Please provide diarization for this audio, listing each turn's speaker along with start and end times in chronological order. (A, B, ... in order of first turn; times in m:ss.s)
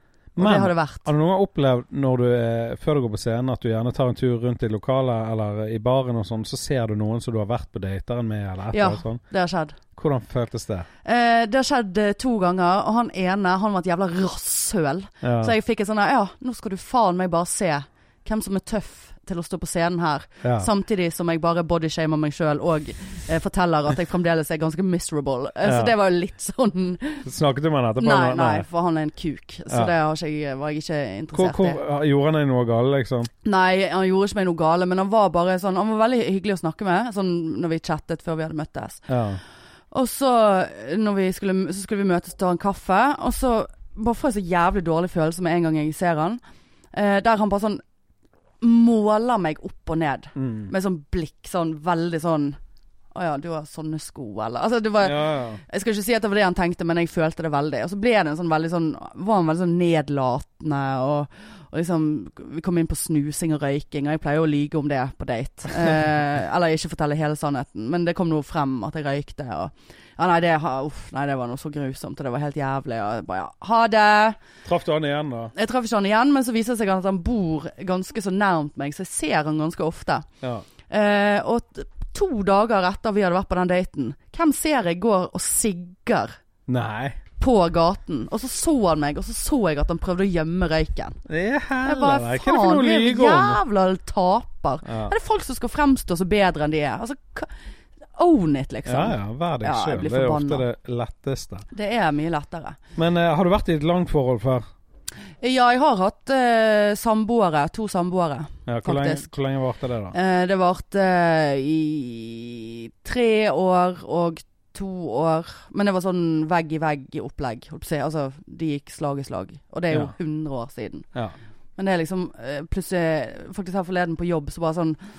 0:00.4-0:09.2 A
0:00.4-0:01.1 B
0:08.7-0:09.8 B
0:10.0-0:10.9 A
0:11.0-0:27.3 B
0:15.2-0:15.5 A
0:20.4-0:20.7 A
0:25.6-0:25.9 A
0:27.2-0:28.7 A
0:28.0-0:31.8 B
0:31.3-0:33.3 A
0:33.4-0:39.0 B
0:39.1-0:39.4 A
0:39.9-0:46.4 B
0:46.9-0:47.8 B
0:48.6-0:52.6 B
0:50.4-0:50.7 A
0:53.1-1:14.4 B
0:55.0-0:55.6 A
1:14.6-1:15.5 A
1:15.6-1:20.3 B
1:20.9-1:26.4 B
1:26.7-1:27.2 A
1:27.4-1:31.2 B
1:31.3-1:33.6 A
1:31.8-1:37.5 B
1:34.8-1:35.1 A
1:38.2-1:40.6 B
1:38.9-1:41.6 A
1:41.7-1:42.8 B
1:43.0-1:44.7 A
1:45.4-1:49.3 B
1:48.7-1:50.2 A
1:50.1-2:01.1 B
2:01.8-2:05.0 B